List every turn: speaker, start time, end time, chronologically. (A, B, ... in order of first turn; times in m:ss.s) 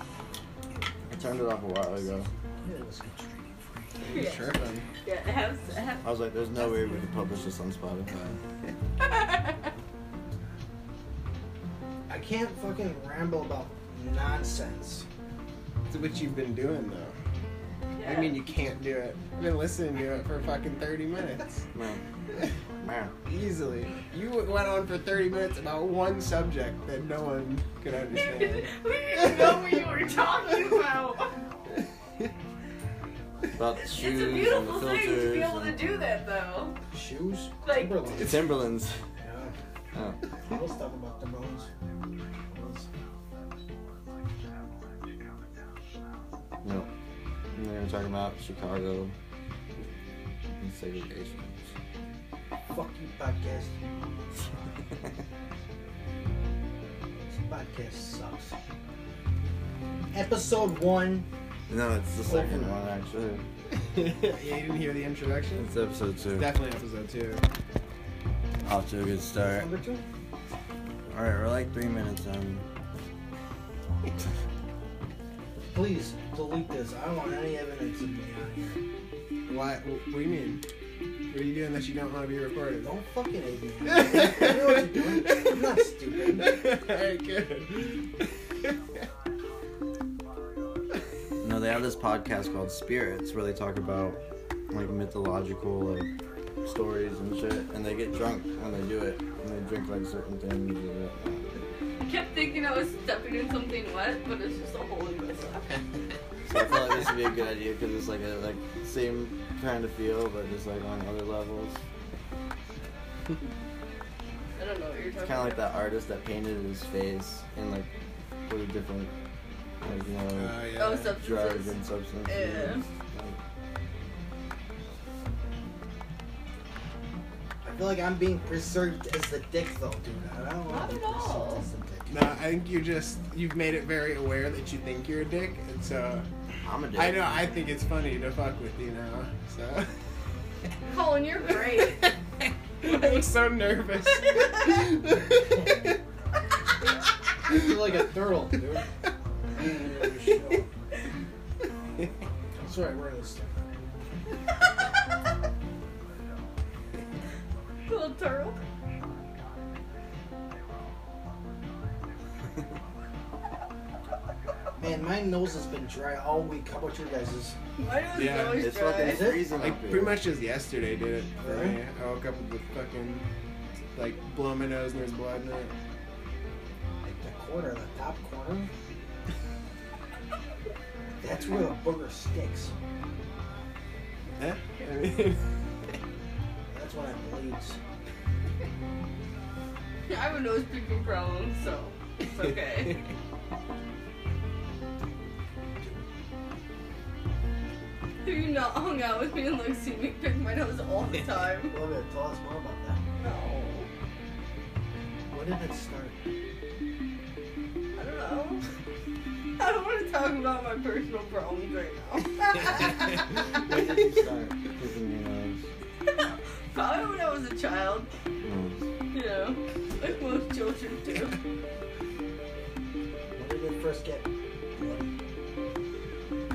0:01.1-0:02.3 A
0:02.6-0:03.9 B
0:04.0-0:04.9 C
0:04.1-0:06.1 D
0:06.0-0:08.3 A
0:09.0-0:09.6 D
0:12.1-0:15.1 B
0:15.9-0:17.2 C
0:18.0-0:18.4 D
0:18.0-0:21.6 C
0:21.7-0:22.0 A
0:22.8-0:23.1 A
0:23.2-0:29.8 C
0:28.2-0:31.3 D
0:33.6-0:35.8 A
0:33.7-0:36.8 D
0:36.9-0:38.6 B
0:37.6-0:38.1 D
0:38.1-0:39.0 A
0:39.2-0:39.5 B
0:39.9-0:40.2 A
0:40.5-0:41.7 B
0:42.4-0:42.9 B
0:46.6-0:46.9 A
0:47.5-0:49.2 A
0:50.6-0:51.7 A
0:52.7-0:53.7 B
0:57.3-0:58.6 B
1:00.1-1:01.3 B
1:01.7-1:03.4 A
1:02.2-1:02.8 B
1:03.8-1:05.7 C
1:05.6-1:06.5 A
1:06.4-1:07.4 C
1:08.6-1:09.7 A
1:09.4-1:10.0 B
1:11.1-1:12.6 A
1:15.7-1:18.8 B
1:19.5-1:20.6 C
1:21.3-1:22.9 C
1:22.8-1:26.5 B
1:23.9-1:28.2 C
1:31.4-1:34.2 A
1:34.7-1:36.1 A
1:36.6-1:41.5 A
1:42.0-1:45.8 D
1:46.5-1:51.8 A
1:54.6-1:55.7 D
1:55.2-1:57.9 A
1:58.5-1:59.1 A
1:59.8-2:03.4 A
2:00.3-2:01.2 C
2:00.8-2:02.8 D
2:07.6-2:12.4 B
2:10.7-2:11.6 D
2:12.1-2:16.3 C
2:16.6-2:17.2 A
2:16.9-2:19.9 C
2:20.9-2:22.1 D
2:22.8-2:25.9 C
2:27.4-2:28.9 B
2:29.5-2:30.7 B
2:32.5-2:33.7 B
2:37.9-2:38.6 D
2:44.8-2:47.6 B
2:47.8-2:49.4 D
2:48.1-2:48.7 C
2:48.5-2:50.2 A
2:49.0-2:49.6 B
2:49.5-2:53.3 C
2:51.4-2:51.8 B
2:53.9-2:55.8 C
2:57.0-2:58.7 B
3:01.2-3:02.7 B
3:04.4-3:05.5 C
3:06.7-3:07.8 B
3:10.1-3:13.1 D
3:18.2-3:21.8 D
3:21.6-3:23.0 B
3:23.2-3:23.9 D
3:25.3-3:26.2 B
3:28.0-3:28.6 D
3:29.6-3:33.3 D
3:33.4-3:35.6 A
3:36.1-3:38.1 D
3:38.4-3:38.8 A
3:39.1-3:41.4 D
3:43.4-3:45.1 B